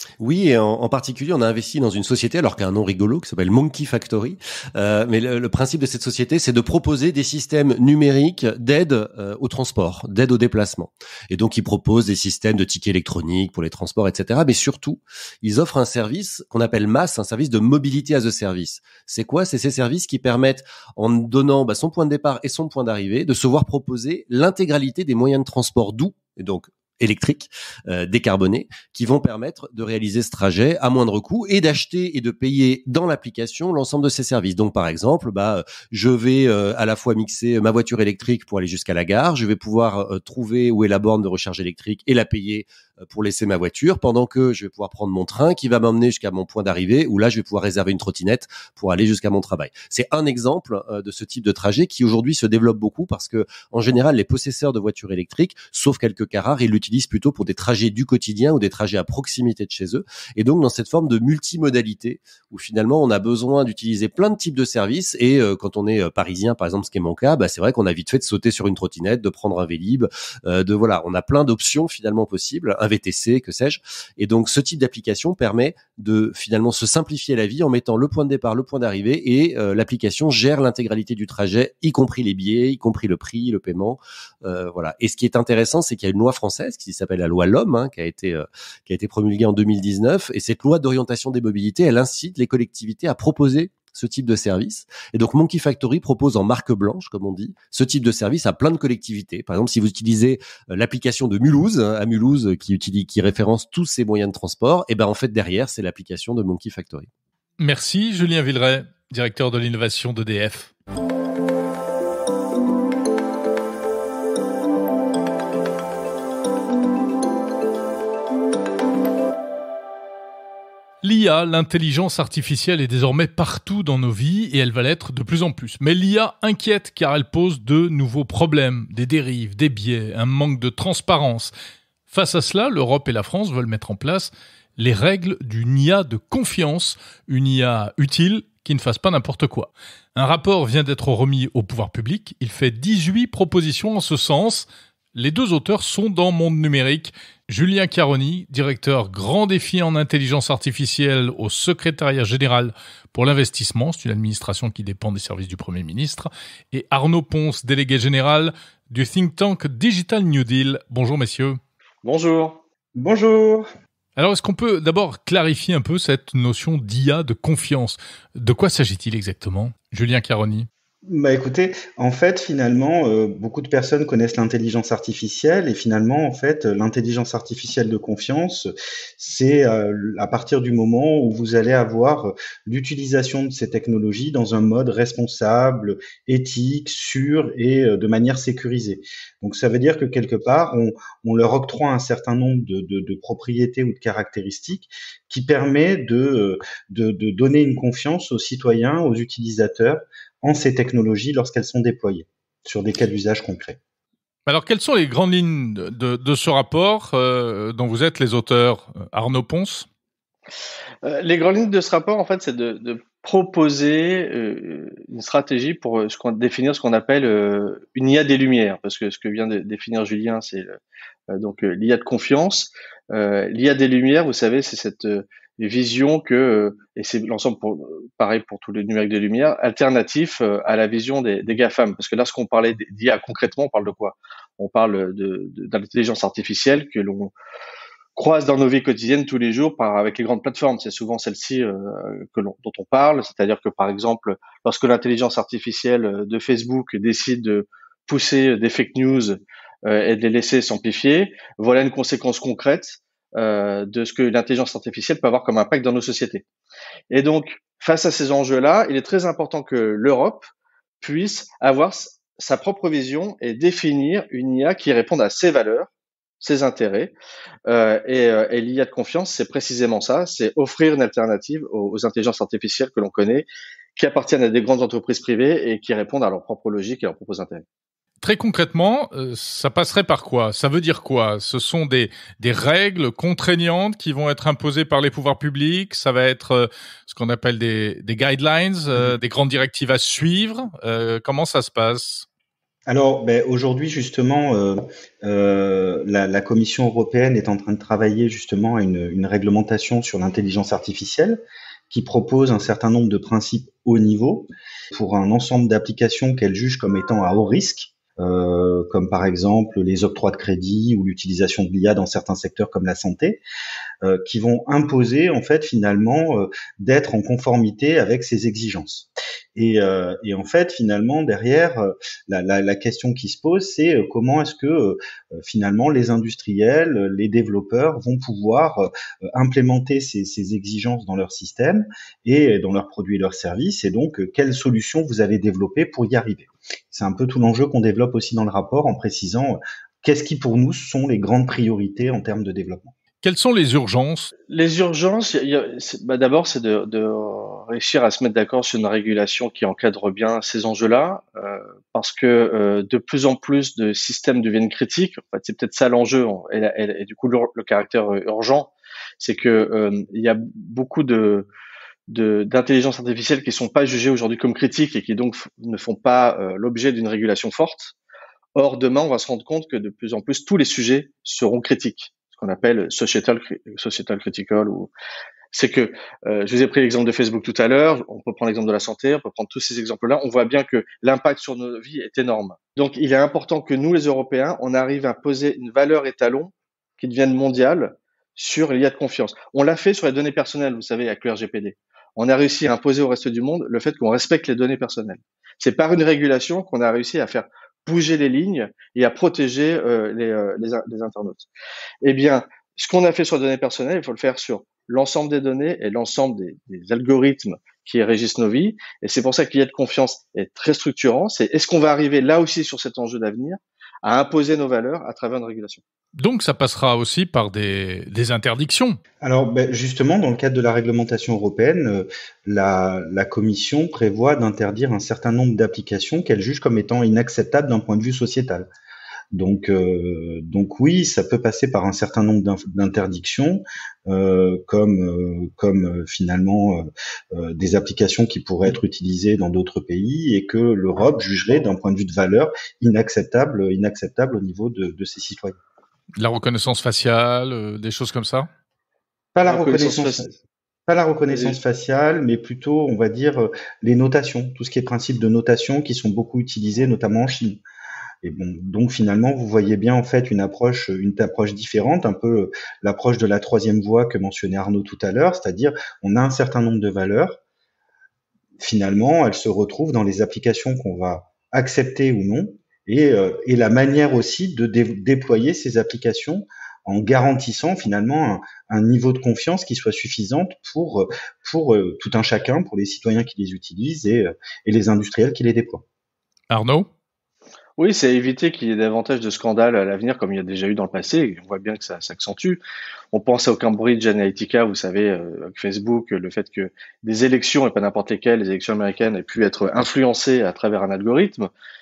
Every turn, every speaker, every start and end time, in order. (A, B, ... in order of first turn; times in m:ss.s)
0:00.2-1:47.1 A
1:47.6-1:50.7 B
2:01.0-2:11.5 B
2:12.1-2:41.6 B
2:42.0-2:42.6 C
2:43.0-2:43.7 D
2:44.2-2:50.7 B
2:51.1-3:23.8 D
3:24.5-3:29.9 B
3:31.0-3:40.8 C
3:41.3-3:57.3 C
3:58.2-4:16.4 C
4:17.1-4:20.4 C
4:21.0-4:25.9 C
4:26.4-4:27.1 C
4:27.7-4:37.6 C
4:38.2-4:52.3 B
4:52.9-5:13.4 D
5:14.0-5:42.9 D
5:43.2-5:44.3 B
5:44.5-6:01.5 C
6:02.1-6:07.9 C
6:08.6-6:14.9 C
6:15.5-6:41.5 C
6:42.0-6:55.8 C
6:56.2-6:59.0 B
6:59.2-7:08.7 D
7:09.3-7:25.6 D
7:26.2-7:28.5 B
7:29.3-7:30.3 D
7:29.4-7:30.3 C
7:30.9-7:37.6 D
7:31.3-7:31.6 C
7:38.2-7:47.4 D
7:48.6-8:05.8 D
8:06.5-8:06.9 B
8:07.8-8:12.6 C
8:13.1-8:21.5 C